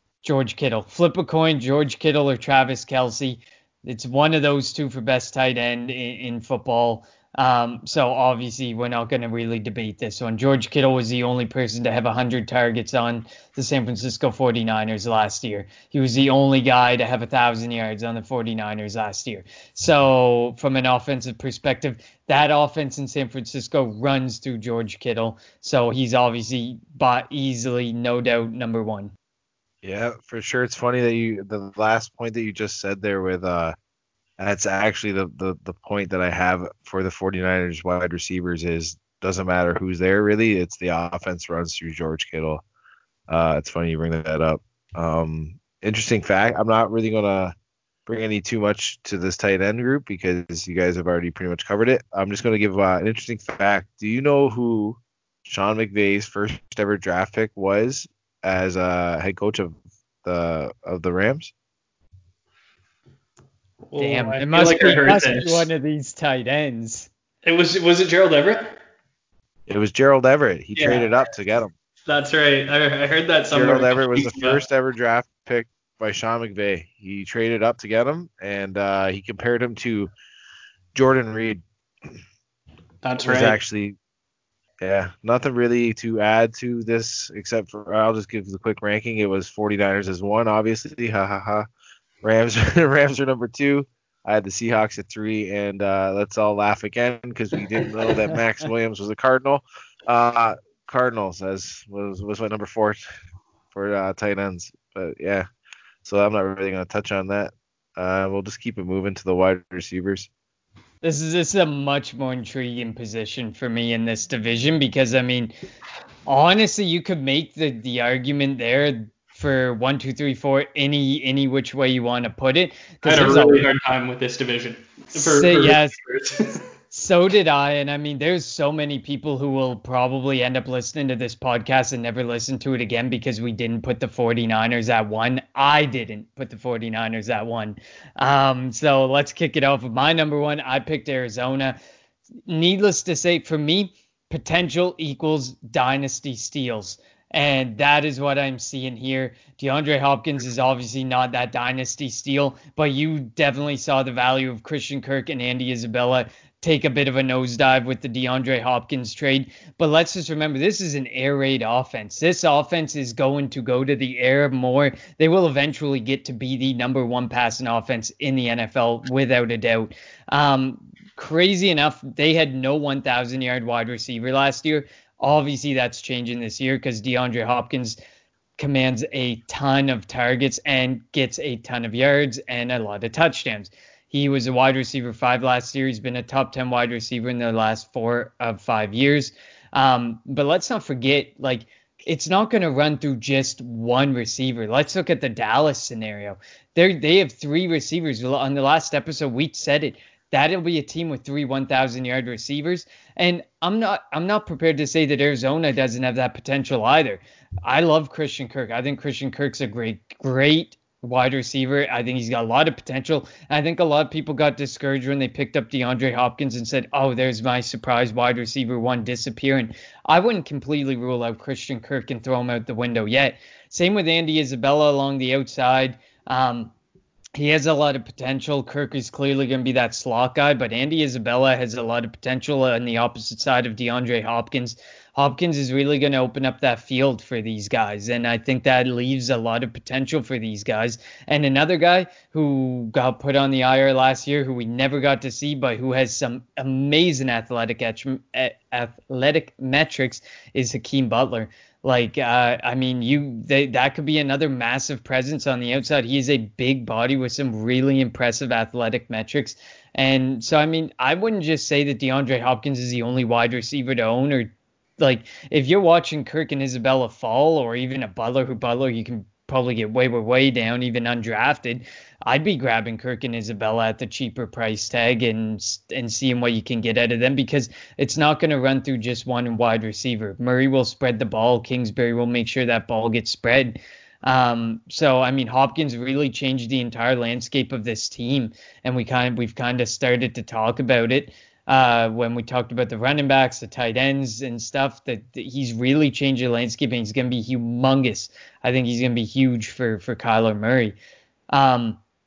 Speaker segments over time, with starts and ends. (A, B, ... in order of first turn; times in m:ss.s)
0:00.2-0:29.1 A
0:29.8-0:33.7 B
0:34.4-0:42.6 B
0:43.3-0:47.5 B
0:48.0-1:01.5 B
1:03.9-1:05.7 C
1:04.0-1:07.1 A
1:07.4-1:08.8 C
1:09.7-1:11.7 B
1:10.8-1:11.1 C
1:12.0-1:14.6 C
1:13.5-1:20.1 B
1:20.9-1:21.6 B
1:23.0-1:23.6 C
1:23.2-1:24.0 B
1:24.8-1:31.6 B
1:32.2-1:43.0 B
1:43.7-1:45.4 B
1:46.0-1:50.3 B
1:51.0-1:55.5 A
1:56.2-2:03.7 A
2:03.0-2:06.6 C
2:05.1-2:06.0 A
2:06.9-2:21.8 A
2:22.5-2:58.0 A
2:58.6-3:46.7 A
3:47.4-5:01.0 A
5:01.5-5:02.0 A